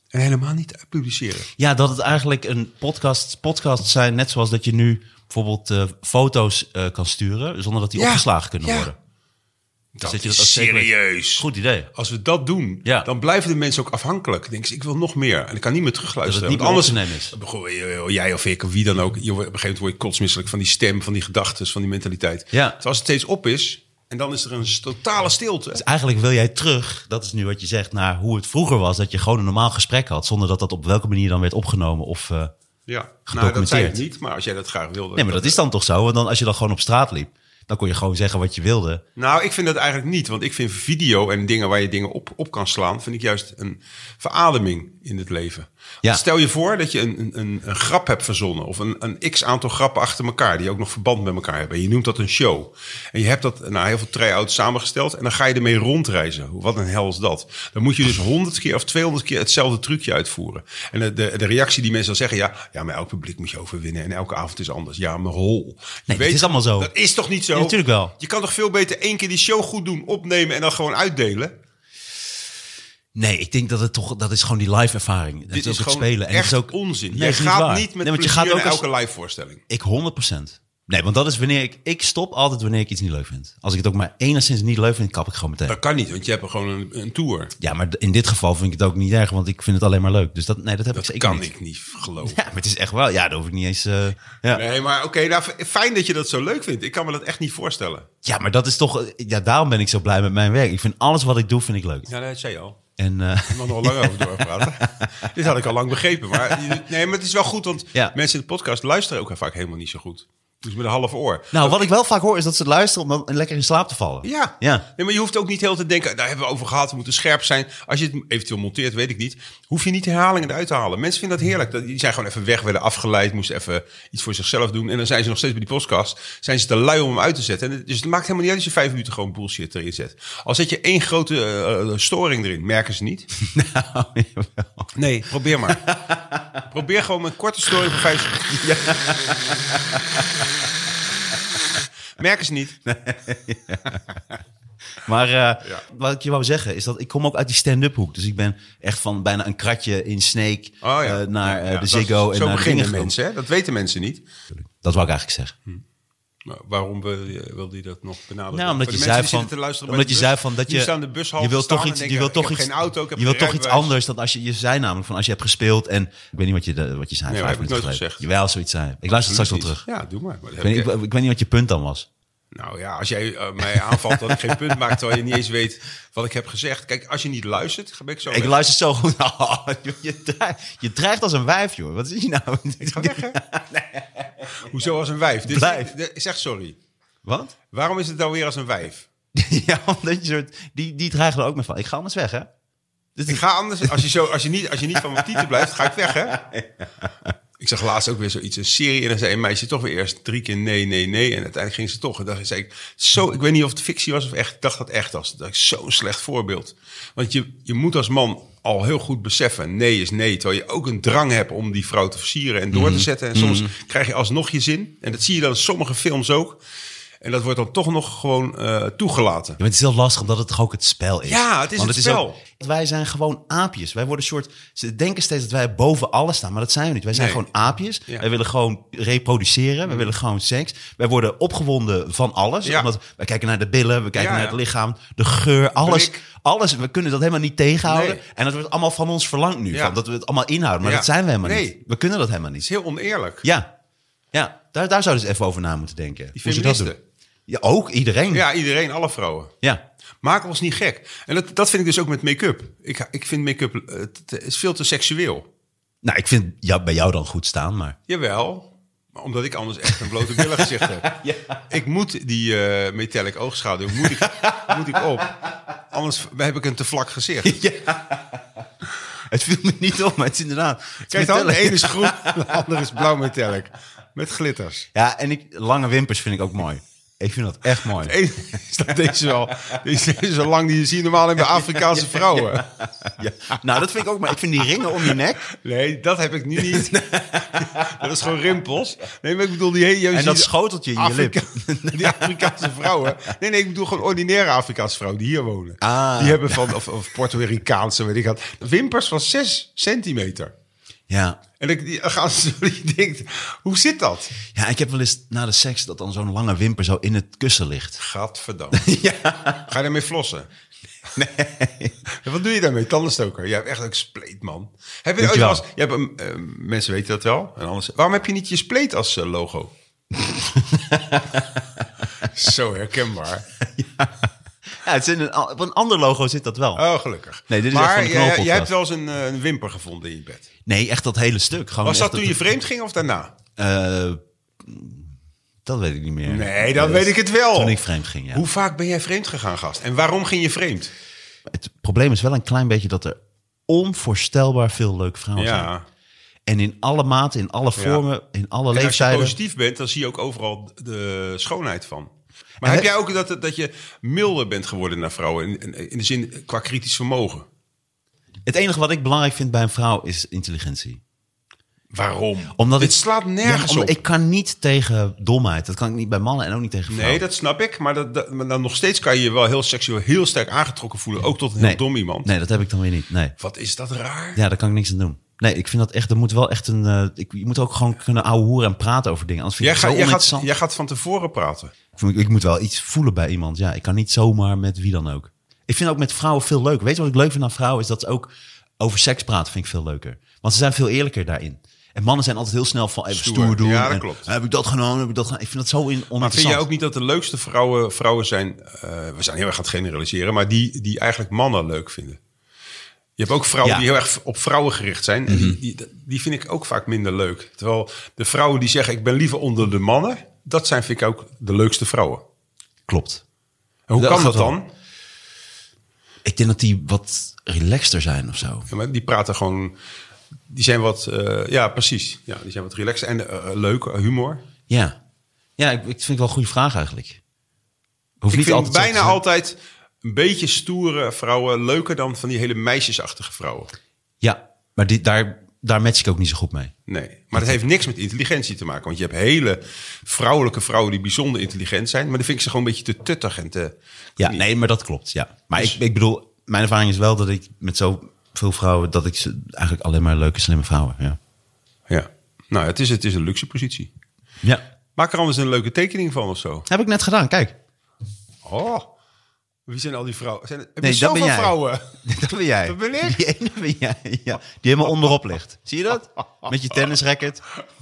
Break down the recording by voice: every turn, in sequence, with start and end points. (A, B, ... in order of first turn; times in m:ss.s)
0:00.1-0:01.5 A
0:01.6-0:09.0 B
0:08.0-0:08.9 A
0:10.0-0:25.8 A
0:10.0-0:11.9 B
0:16.2-0:17.4 B
0:22.5-0:22.8 B
0:25.8-0:32.5 B
0:32.9-0:35.6 A
0:33.3-0:34.0 B
0:35.2-0:39.0 B
0:39.2-1:11.6 A
1:06.1-1:06.9 B
1:07.5-1:08.1 B
1:13.2-1:18.8 B
1:15.5-1:19.6 A
1:19.7-1:25.8 B
1:25.7-1:27.5 A
1:27.6-1:31.5 B
1:30.9-1:32.4 A
1:32.2-1:34.6 B
1:34.5-1:38.1 A
1:38.2-1:42.1 B
1:42.1-1:42.8 A
1:43.0-1:45.3 B
1:43.5-1:51.9 A
1:51.5-1:54.9 B
1:54.2-2:13.3 A
2:13.4-2:14.9 B
2:15.0-2:15.8 A
2:15.6-2:16.6 B
2:16.7-2:18.4 A
2:18.3-2:20.5 B
2:22.2-2:22.8 A
2:22.8-2:24.2 B
2:25.0-2:33.2 B
2:30.8-2:34.2 A
2:34.5-2:35.5 B
2:36.4-2:43.9 A
2:38.5-2:49.8 B
2:47.3-2:48.2 A
2:49.2-2:50.9 A
2:50.6-2:52.1 B
2:52.5-2:58.6 A
2:53.7-2:55.0 B
2:58.3-3:04.6 B
3:02.8-3:03.4 A
3:04.6-3:06.8 A
3:05.4-3:05.9 B
3:07.2-3:07.5 B
3:07.7-3:09.1 A
3:09.3-3:12.5 B
3:13.2-3:14.0 B
3:13.3-3:16.4 A
3:15.1-3:17.3 B
3:17.6-3:36.6 A
3:32.7-3:33.7 B
3:37.2-3:39.6 A
3:39.6-4:02.7 B
3:41.2-3:42.4 A
3:47.1-3:47.5 A
3:49.9-3:50.1 A
3:54.2-3:54.6 A
3:55.8-3:56.2 A
3:57.9-3:58.2 A
3:59.7-4:00.0 A
4:00.8-4:01.8 A
4:02.6-4:03.4 A
4:03.4-4:03.7 B
4:04.3-4:06.9 B
4:06.4-4:07.0 A
4:07.5-4:08.5 B
4:08.3-4:09.5 A
4:10.2-4:15.5 A
4:16.0-4:18.0 B
4:18.1-4:21.1 A
4:20.3-4:21.6 B
4:21.7-4:27.6 A
4:24.0-4:24.7 B
4:27.4-4:28.7 B
4:29.3-4:32.8 B
4:31.1-4:34.9 A
4:34.9-4:38.2 B
4:37.9-4:42.7 A
4:41.5-4:45.5 B
4:45.0-5:00.5 A
4:46.6-4:48.1 B
4:50.1-4:53.3 B
4:55.8-4:56.8 B
5:01.1-5:01.4 B
5:01.6-5:04.3 A
5:04.5-5:08.0 B
5:08.0-5:08.8 A
5:08.7-5:09.7 B
5:09.5-5:10.5 A
5:11.2-5:12.0 B
5:12.1-5:19.7 A
5:15.2-5:15.6 B
5:20.2-5:21.8 B
5:22.2-5:23.5 A
5:23.6-5:26.8 B
5:26.8-5:30.5 A
5:27.5-5:28.7 B
5:30.7-5:32.4 B
5:31.8-5:33.3 A
5:33.6-5:35.1 B
5:35.6-5:38.4 B
5:36.3-5:37.8 A
5:38.3-5:40.9 A
5:41.5-5:45.7 B
5:45.4-5:45.9 A
5:46.5-5:49.4 B
5:47.8-5:48.0 A
5:48.7-5:57.5 A
5:52.6-5:52.9 B
5:58.5-6:01.0 B
6:01.9-6:04.0 A
6:02.6-6:07.2 B
6:06.9-6:12.3 A
6:11.6-6:13.4 B
6:13.4-6:14.4 A
6:14.4-6:20.5 B
6:19.6-6:21.7 A
6:22.0-6:36.6 B
6:33.1-6:34.3 A
6:36.2-6:42.2 A
6:43.2-6:52.2 A
6:45.3-6:45.6 B
6:52.9-6:53.2 B
6:53.9-6:54.7 A
6:54.0-6:54.6 B
6:56.2-6:58.7 B
6:58.7-6:59.8 A
7:00.5-7:04.4 A
7:04.7-7:05.0 B
7:05.6-7:07.2 B
7:08.2-7:09.2 B
7:08.3-7:13.7 A
7:14.2-7:16.7 B
7:16.9-7:24.4 A
7:24.2-7:31.2 B
7:31.9-7:33.9 A
7:35.0-7:36.7 A
7:36.7-7:37.6 B
7:38.4-7:38.9 A
7:39.7-7:41.9 A
7:40.8-7:47.4 B
7:42.6-7:43.2 A